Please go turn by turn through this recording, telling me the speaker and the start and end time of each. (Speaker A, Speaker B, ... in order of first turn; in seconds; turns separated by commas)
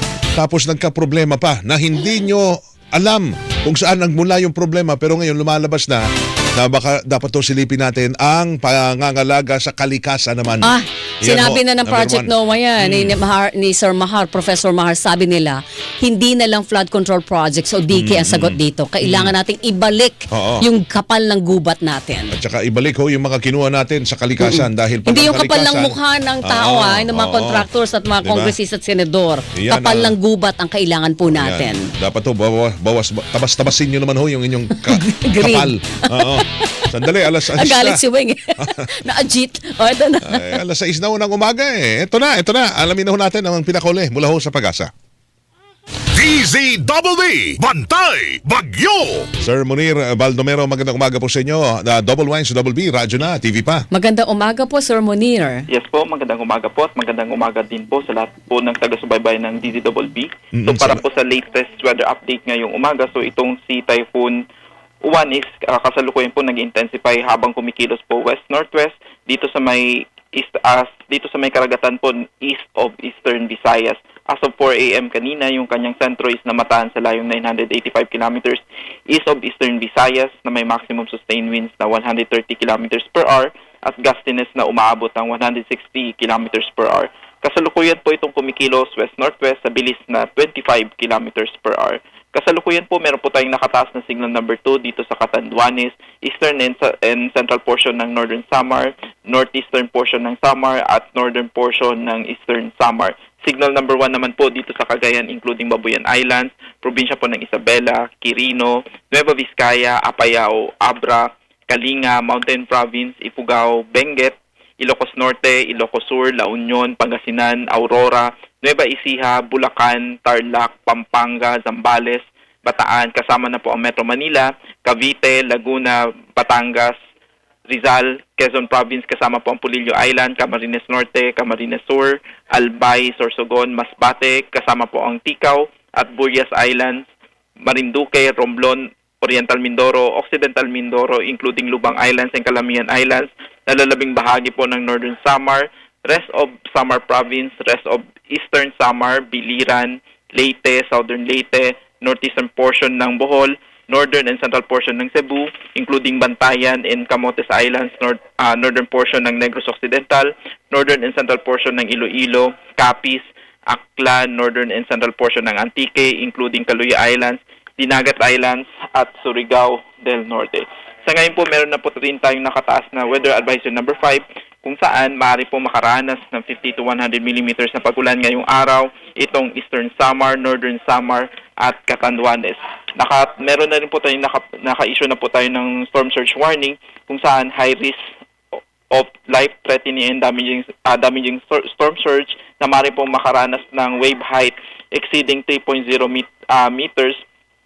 Speaker A: 0.4-6.0, Speaker A: 6.6-13.2, Speaker B: 10.6-22.3, Speaker A: 17.9-19.3, Speaker A: 20.3-20.7, Speaker A: 22.3-27.7, Speaker B: 24.4-31.9, Speaker A: 28.2-28.5, Speaker A: 29.5-30.1, Speaker A: 31.3-38.0, Speaker B: 34.7-40.6, Speaker A: 38.6-38.9, Speaker A: 40.3-44.9, Speaker C: 46.2-49.2, Speaker A: 49.4-53.9, Speaker B: 53.9-55.7, Speaker D: 55.7-64.4, Speaker A: 60.5-61.0, Speaker D: 65.0-127.0, Speaker D: 127.7-137.1, Speaker D: 137.6-188.0, Speaker D: 188.9-197.2